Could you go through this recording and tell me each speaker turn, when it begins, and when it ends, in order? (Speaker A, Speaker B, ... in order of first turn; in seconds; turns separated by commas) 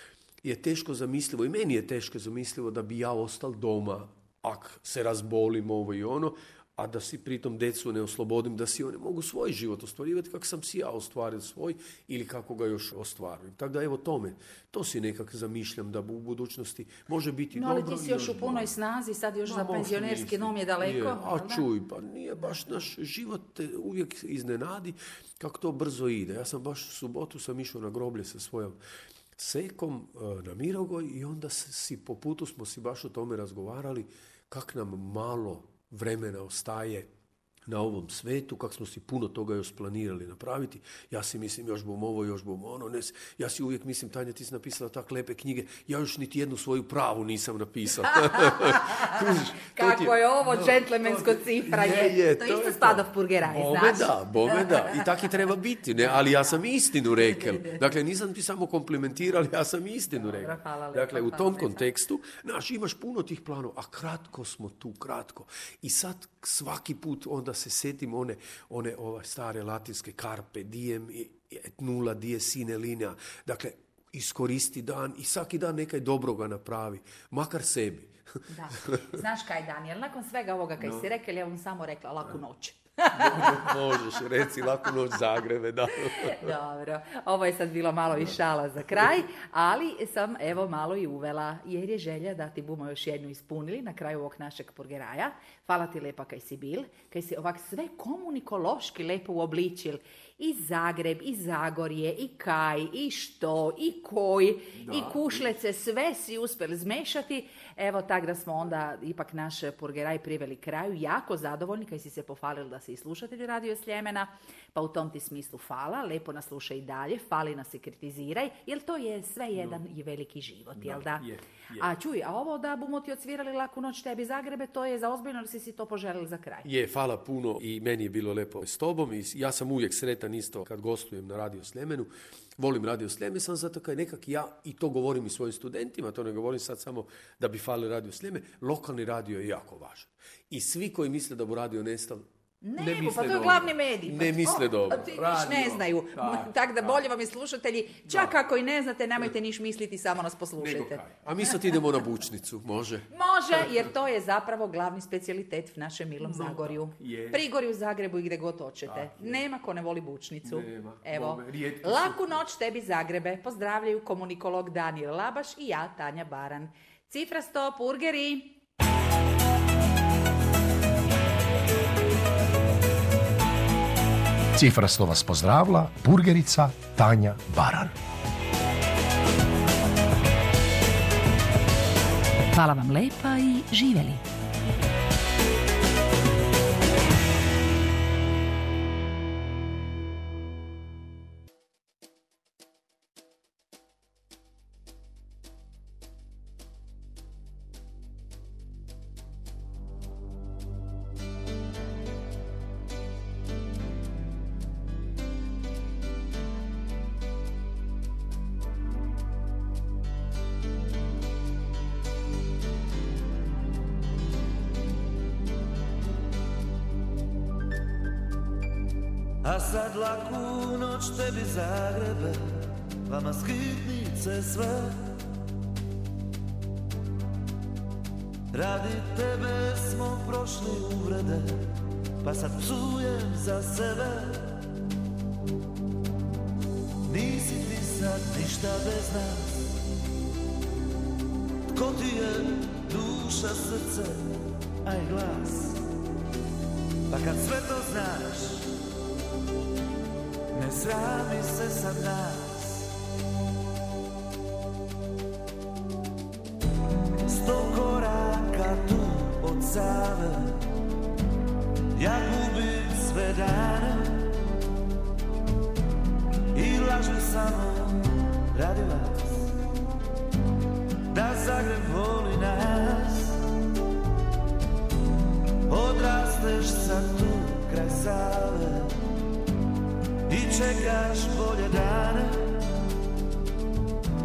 Speaker A: 0.4-18.7, Speaker B: 17.5-21.6, Speaker A: 19.4-28.8, Speaker A: 29.4-37.1, Speaker A: 37.7-78.2, Speaker B: 48.4-55.2, Speaker B: 60.1-61.9, Speaker B: 78.5-83.8, Speaker A: 78.7-79.2, Speaker A: 80.8-81.1, Speaker A: 83.1-86.5, Speaker B: 85.9-126.7, Speaker A: 88.2-89.1, Speaker A: 104.8-105.4, Speaker A: 120.8-121.9, Speaker A: 126.6-142.2, Speaker B: 142.6-151.5, Speaker A: 142.8-147.0, Speaker A: 148.1-148.3, Speaker A: 150.6-153.9, Speaker B: 153.1-168.6, Speaker A: 156.2-157.4, Speaker A: 158.8-159.4, Speaker A: 160.4-162.4, Speaker C: 174.5-177.9, Speaker B: 182.5-184.2, Speaker D: 219.4-225.1, Speaker D: 228.5-234.5, Speaker D: 237.1-239.8, Speaker D: 241.7-245.8, Speaker D: 247.1-248.7, Speaker D: 250.5-252.9, Speaker D: 257.2-260.7, Speaker D: 261.9-264.3, Speaker D: 266.5-269.5, Speaker D: 271.1-273.4, Speaker D: 275.7-279.0, Speaker D: 280.3-282.6